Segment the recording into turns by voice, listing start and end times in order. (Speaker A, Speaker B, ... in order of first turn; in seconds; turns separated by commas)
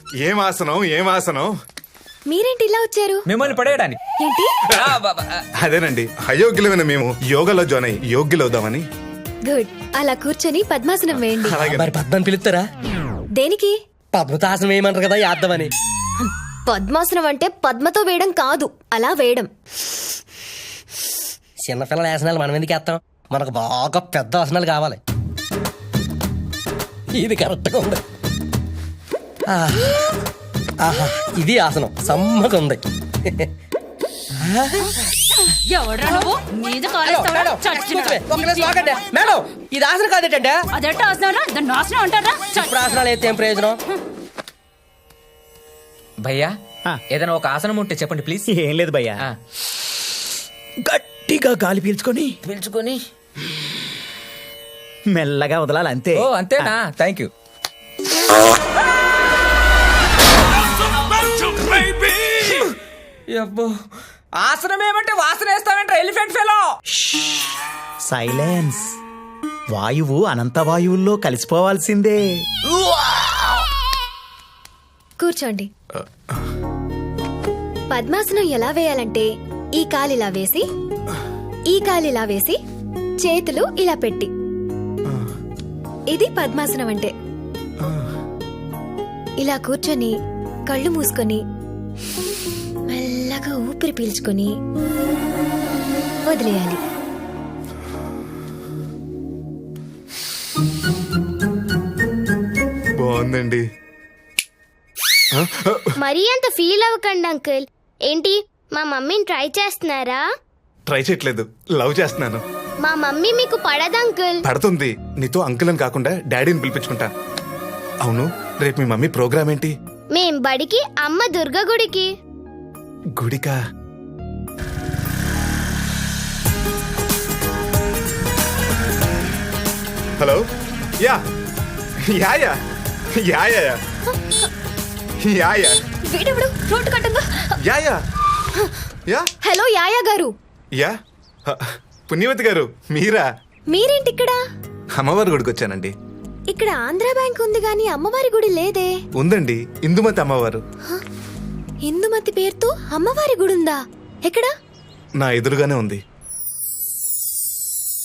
Speaker A: 0.2-1.5, Speaker B: 2.3-3.2, Speaker C: 3.2-4.0, Speaker B: 4.2-4.5, Speaker C: 4.8-5.4, Speaker A: 5.6-8.8, Speaker B: 9.4-11.6, Speaker A: 11.4-11.9, Speaker D: 11.7-12.6, Speaker B: 13.3-13.8, Speaker D: 14.1-15.7, Speaker B: 16.2-19.5, Speaker D: 21.6-25.0, Speaker D: 27.1-28.0, Speaker D: 29.5-30.0, Speaker D: 30.8-32.8, Speaker D: 34.4-35.0, Speaker E: 35.6-38.9, Speaker D: 37.0-40.6, Speaker E: 40.7-42.7, Speaker D: 42.5-43.8, Speaker C: 46.2-46.5, Speaker C: 47.1-48.6, Speaker F: 48.5-49.1, Speaker F: 50.9-52.3, Speaker C: 52.4-53.0, Speaker F: 55.1-56.6, Speaker C: 56.1-57.3, Speaker C: 61.5-62.6, Speaker C: 64.4-66.7, Speaker F: 68.0-68.8, Speaker F: 69.7-72.3, Speaker B: 75.2-75.7, Speaker B: 77.9-80.6, Speaker B: 81.7-82.6, Speaker B: 83.2-84.3, Speaker B: 86.1-87.1, Speaker A: 87.8-88.1, Speaker B: 89.4-90.1, Speaker B: 90.7-91.4, Speaker B: 92.9-94.5, Speaker B: 96.2-96.8, Speaker A: 103.0-103.6, Speaker A: 105.3-105.9, Speaker G: 106.0-107.6, Speaker G: 108.1-110.2, Speaker A: 110.9-112.4, Speaker G: 112.8-114.4, Speaker A: 114.4-117.1, Speaker A: 118.0-119.7, Speaker G: 120.1-122.0, Speaker A: 123.2-123.6, Speaker A: 132.1-132.6, Speaker A: 133.2-133.8, Speaker A: 135.2-135.8, Speaker B: 136.1-137.4, Speaker A: 137.6-138.0, Speaker B: 139.4-140.3, Speaker A: 141.5-143.2, Speaker B: 143.7-144.4, Speaker A: 145.0-145.9, Speaker B: 146.5-148.9, Speaker A: 149.2-150.6, Speaker B: 151.8-154.5, Speaker A: 155.2-156.0